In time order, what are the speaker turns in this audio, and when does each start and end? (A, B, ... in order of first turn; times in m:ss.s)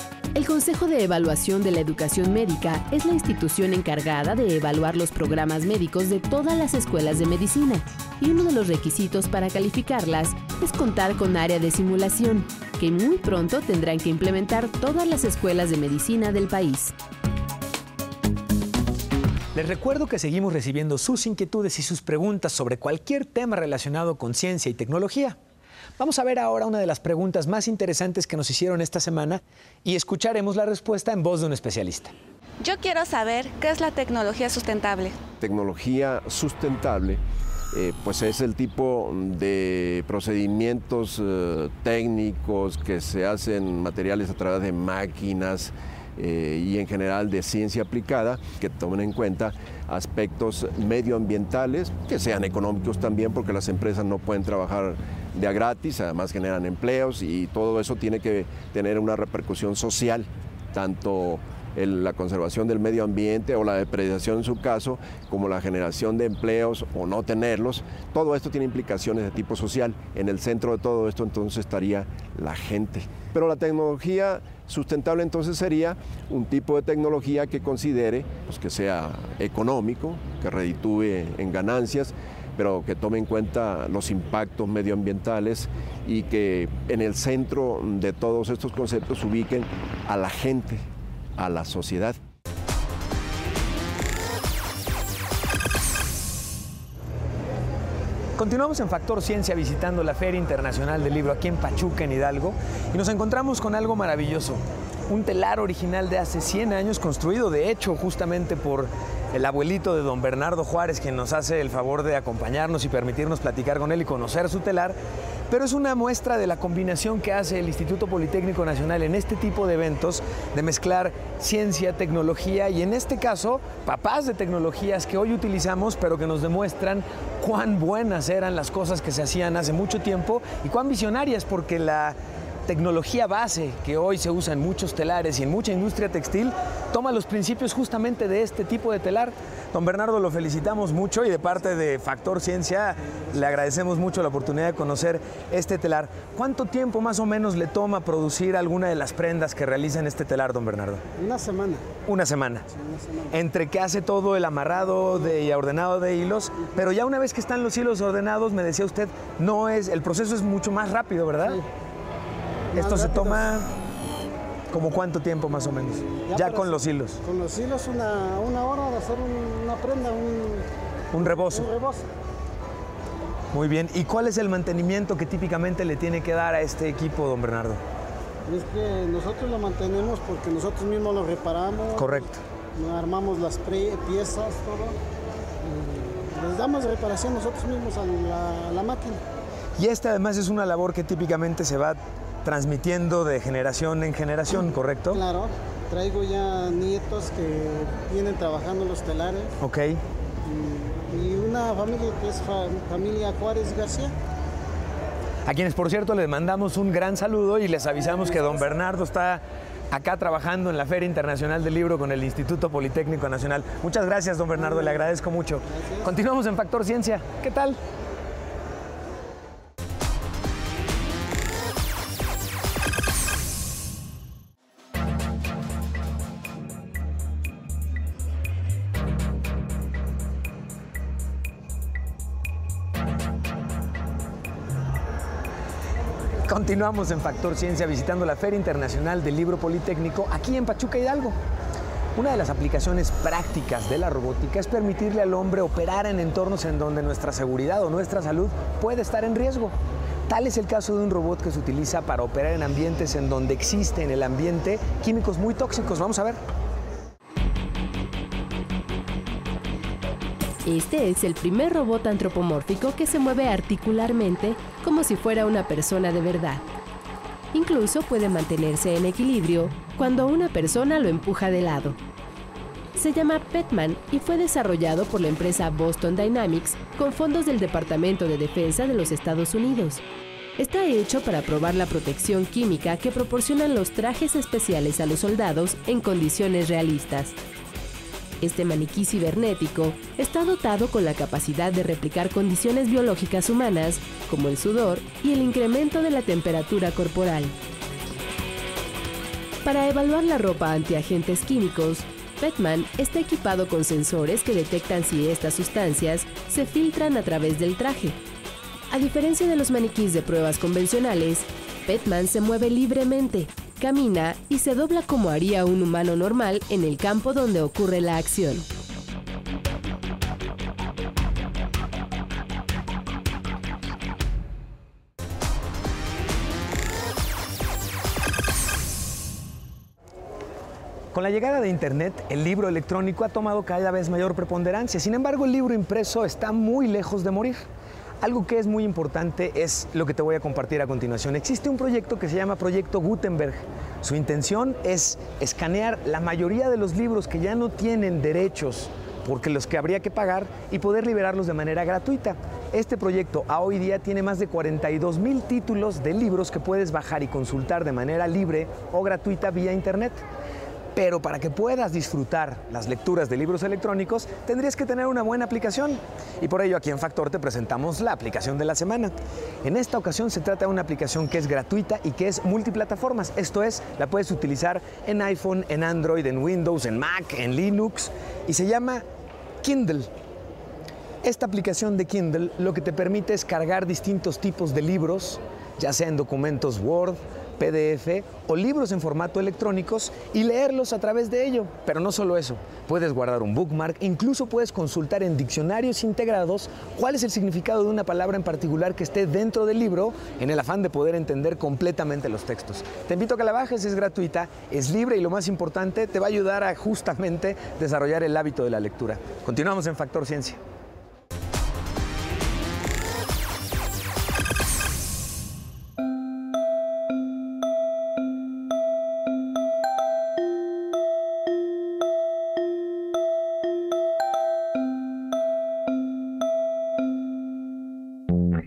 0:00.3-0:16.9 A
0:19.5-0:25.4 B
0:26.0-0:32.1 B
0:32.6-0:35.2 C
0:35.4-0:37.2 D
0:37.7-1:30.8 D
1:31.4-1:32.2 D
1:38.4-1:55.0 B
1:55.5-2:31.0 B
2:31.2-2:31.8 E
2:32.1-2:32.6 B
2:32.7-2:33.3 E
2:33.3-2:41.6 B
2:42.7-2:43.5 E
2:42.7-2:43.7 B
2:44.7-2:47.2 B
2:46.1-2:52.1 E
2:51.1-2:51.7 B
2:53.5-2:57.8 B
2:58.4-3:05.0 E
3:02.0-3:02.4 B
3:05.6-3:09.2 E
3:09.8-3:15.2 B
3:15.1-3:19.5 E
3:19.6-3:20.0 B
3:20.4-3:24.1 E
3:25.4-3:37.8 B
3:34.6-3:35.0 E
3:35.7-3:36.1 E
3:56.4-4:01.4 B
4:02.2-4:09.7 B
4:10.3-4:16.4 B
4:20.6-4:26.6 A
4:27.5-4:32.0 A
4:33.0-4:40.0 A
4:40.6-4:47.4 A
4:48.4-4:57.5 A
4:59.6-5:08.2 A
5:08.9-5:18.7 A
5:31.1-5:37.6 B
5:38.2-6:00.2 B
6:00.9-6:19.0 B
6:19.6-6:20.1 B
6:21.2-6:50.6 B